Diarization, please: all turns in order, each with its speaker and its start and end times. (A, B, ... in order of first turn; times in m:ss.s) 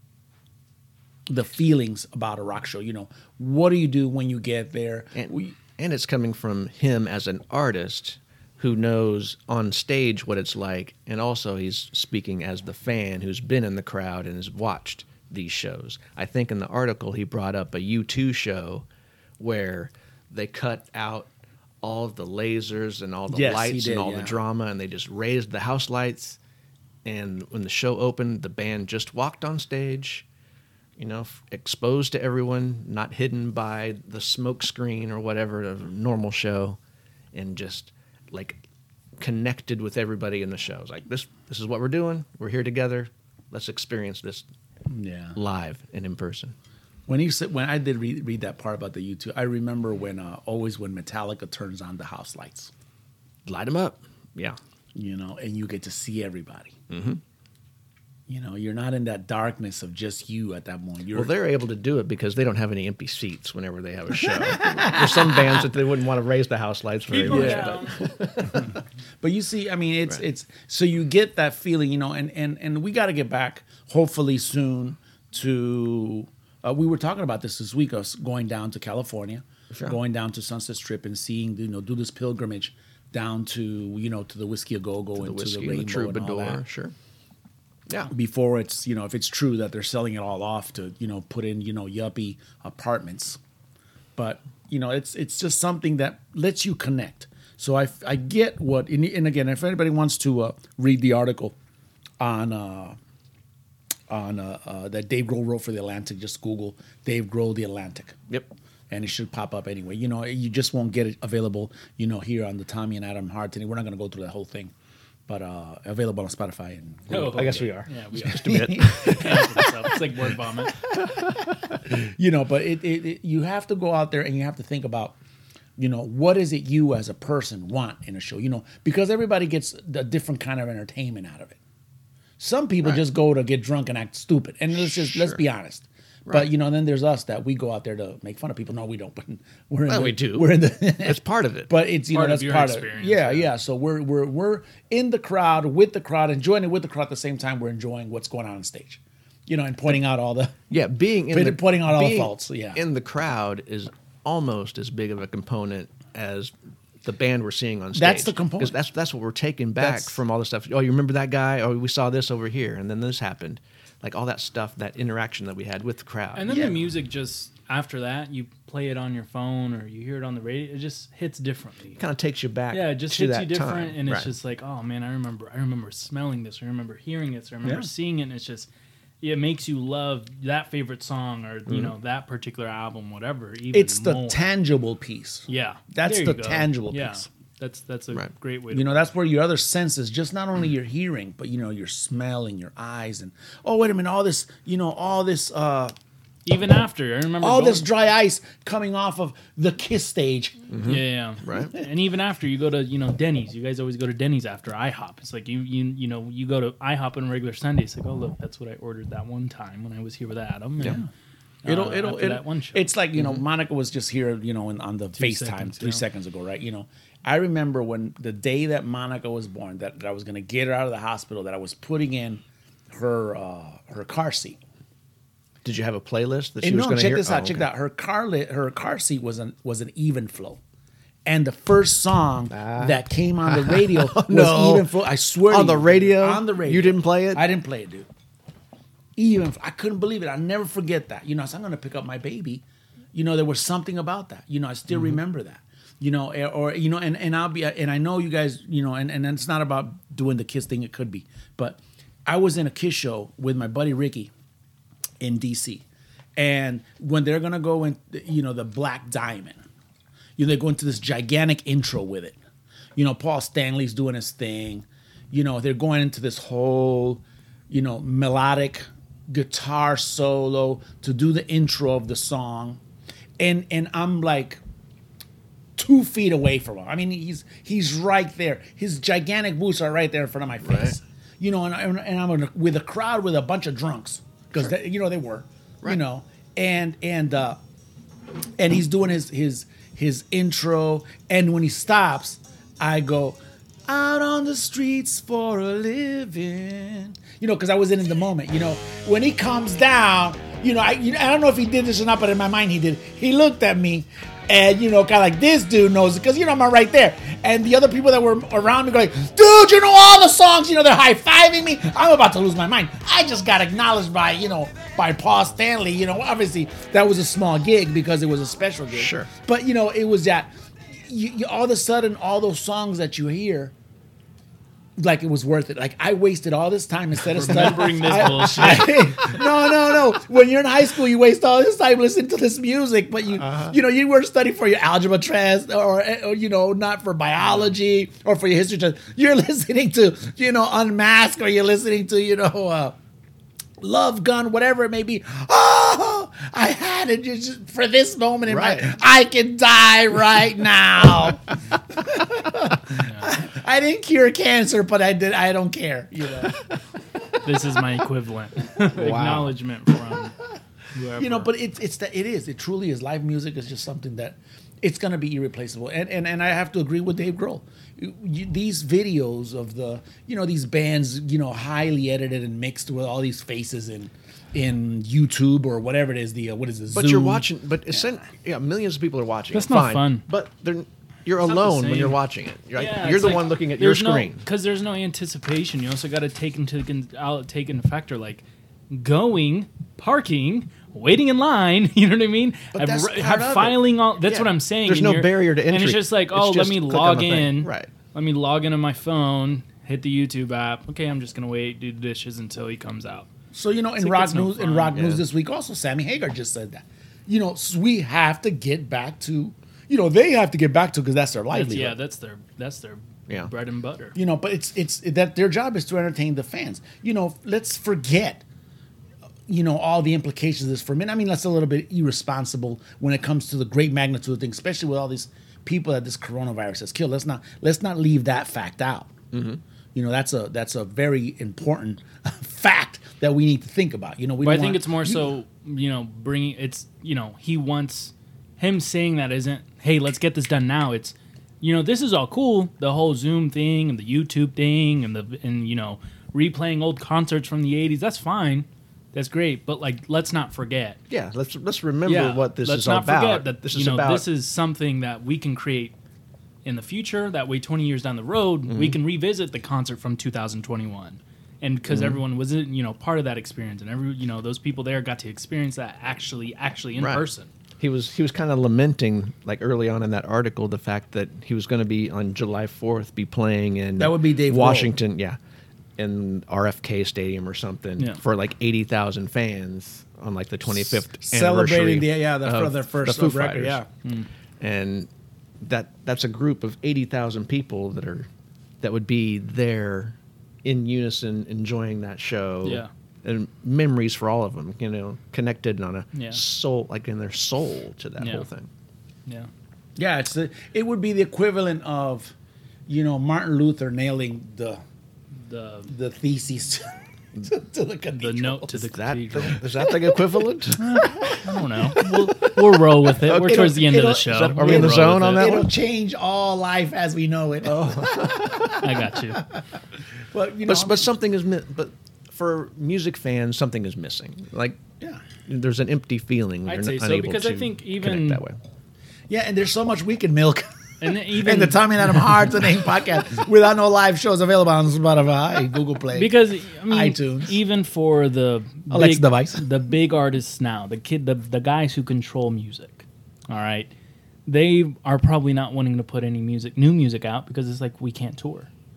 0:01.3-0:05.5 A
0:05.1-0:18.8 B
0:19.4-0:21.3 B
0:21.8-0:26.4 B
0:23.3-0:24.4 A
0:27.0-0:30.2 B
0:31.0-0:36.8 B
0:37.3-0:38.6 B
0:39.2-0:44.4 B
0:44.9-0:45.4 A
0:45.4-0:46.5 B
0:47.1-0:52.7 A
0:53.4-0:54.6 B
0:54.9-0:56.8 A
0:56.9-0:57.2 B
0:58.3-1:01.3 A
1:01.1-1:08.8 B
1:04.4-1:05.6 A
1:07.1-1:08.0 C
1:07.2-1:07.7 A
1:08.4-1:26.6 A
1:19.7-1:20.0 B
1:25.2-1:26.9 B
1:28.1-1:33.4 A
1:34.2-1:41.5 A
1:42.2-1:43.0 A
1:44.1-1:48.2 A
1:48.9-1:54.7 A
1:55.3-1:59.6 A
1:57.1-2:00.8 C
1:58.1-1:59.7 B
2:01.0-2:01.7 B
2:01.4-2:05.2 A
2:05.8-2:11.6 A
2:12.4-2:30.6 A
2:14.8-2:15.4 B
2:19.9-2:21.7 B
2:22.1-2:23.5 C
2:30.7-2:46.6 B
2:31.3-2:32.8 A
2:37.9-2:38.8 A
2:39.8-2:40.2 A
2:46.4-2:52.0 C
2:46.5-2:46.8 A
2:52.0-2:54.3 B
2:52.7-2:58.7 C
2:59.2-3:04.5 C
3:03.7-3:07.2 A
3:05.5-3:09.1 C
3:08.7-3:15.9 A
3:16.4-3:17.9 C
3:17.4-3:20.7 A
3:20.7-3:21.7 B
3:20.8-3:31.0 C
3:31.6-3:32.9 C
3:31.6-3:44.6 A
3:33.2-3:33.4 B
3:35.2-3:36.0 C
3:45.6-3:47.7 B
3:46.6-3:50.6 A
3:51.2-3:58.1 A
3:52.5-3:57.5 B
3:59.2-4:02.6 A
4:03.1-4:14.3 A
4:15.2-4:15.8 A
4:16.4-4:19.6 A
4:20.4-4:22.4 A
4:23.0-4:32.8 A
4:33.4-4:34.6 A
4:35.8-4:47.6 A
4:40.6-4:41.0 B
4:48.6-5:23.7 A
5:18.9-5:19.3 B
5:25.0-5:43.0 A
5:27.2-5:29.4 C
5:28.4-5:28.8 B
5:33.4-5:33.7 B
5:43.8-5:56.6 A
5:48.5-5:48.9 B
5:53.0-5:53.3 C
5:57.4-6:00.4 C
5:58.9-5:59.5 B
6:00.9-6:01.5 C
6:01.2-6:17.5 A
6:16.9-6:24.4 B
6:19.5-6:20.2 C
6:21.4-6:22.2 C
6:22.7-6:43.3 C
6:32.7-6:33.8 A
6:34.2-6:37.9 B
6:43.5-6:52.0 A
6:44.0-6:45.0 C
6:45.0-6:45.2 B
6:51.5-6:54.2 C
6:54.1-6:58.4 A
6:59.5-7:09.1 A
7:09.3-7:09.6 B
7:09.9-7:15.3 A
7:14.4-7:31.0 C
7:31.1-7:34.2 B
7:32.0-7:35.9 C
7:36.6-7:47.5 C
7:38.7-7:39.0 B
7:41.9-7:42.2 B
7:47.0-7:47.2 B
7:47.8-7:55.4 B
7:54.0-7:55.0 A
7:56.0-8:03.8 B
8:01.1-8:03.9 A
8:04.6-8:05.1 B
8:05.6-8:08.3 B
8:08.8-8:18.7 B
8:12.6-8:12.9 C
8:16.1-8:16.4 C
8:18.2-8:18.5 C
8:20.0-8:22.3 A
8:22.9-8:24.8 A
8:25.3-8:25.9 C
8:25.9-8:28.7 A
8:28.1-8:29.6 C
8:28.7-8:35.7 B
8:30.8-8:35.6 C
8:33.3-8:38.8 A
8:37.6-8:38.9 B
8:38.8-8:39.4 C
8:40.3-8:41.1 A
8:40.6-8:44.8 B
8:45.4-8:48.6 B
8:46.6-8:48.4 C
8:49.3-8:56.3 A
8:51.0-8:52.4 C
8:56.1-9:03.9 C
8:56.9-8:57.5 A
8:58.9-8:59.7 A
9:04.4-9:08.7 C